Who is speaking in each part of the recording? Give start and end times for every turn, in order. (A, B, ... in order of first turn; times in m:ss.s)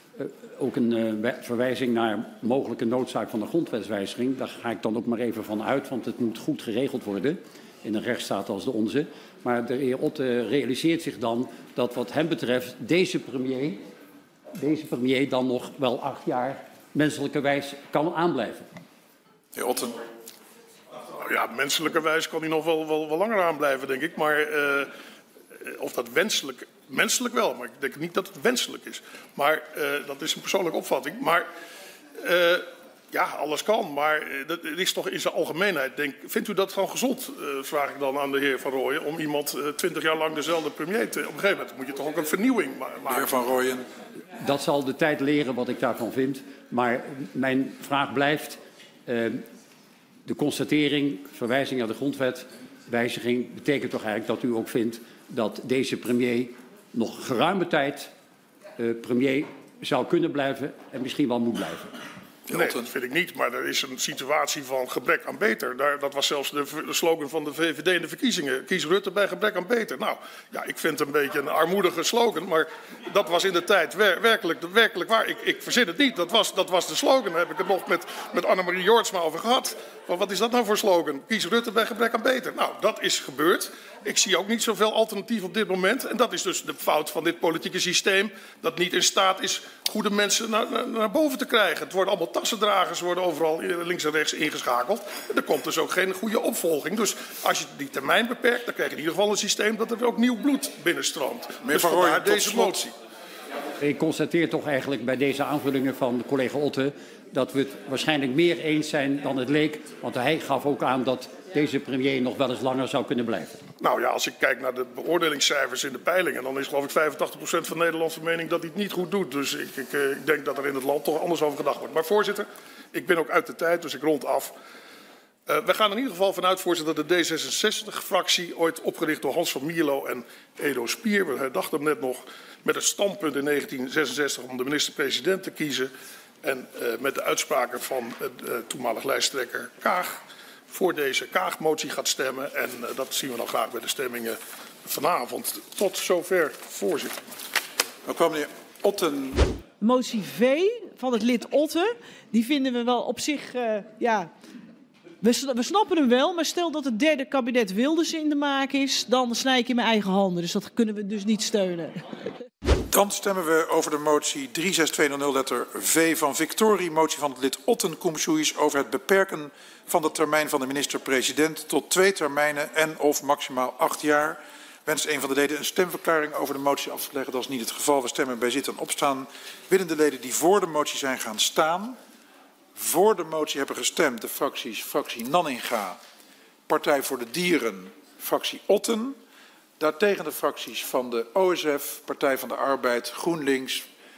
0:00.2-0:13.8 A
0:14.6-0:18.7 A
0:19.6-0:20.0 B
0:21.2-0:24.9 C
0:25.6-0:31.5 C
0:32.2-0:43.4 C
0:43.1-0:43.8 B
0:44.4-0:49.4 A
0:50.2-0:58.1 A
0:58.8-1:01.9 A
1:02.5-1:42.9 C
1:02.5-1:02.8 B
1:41.6-1:42.9 B
1:43.8-1:53.6 A
1:53.8-2:04.6 C
2:05.5-2:15.9 C
2:16.4-2:20.2 C
2:20.7-2:27.2 C
2:28.1-2:29.5 B
2:29.8-2:34.3 D
2:35.2-2:42.2 D
2:42.9-3:02.0 B
3:02.8-3:06.0 B
3:06.7-3:09.2 B
3:09.8-3:13.9 B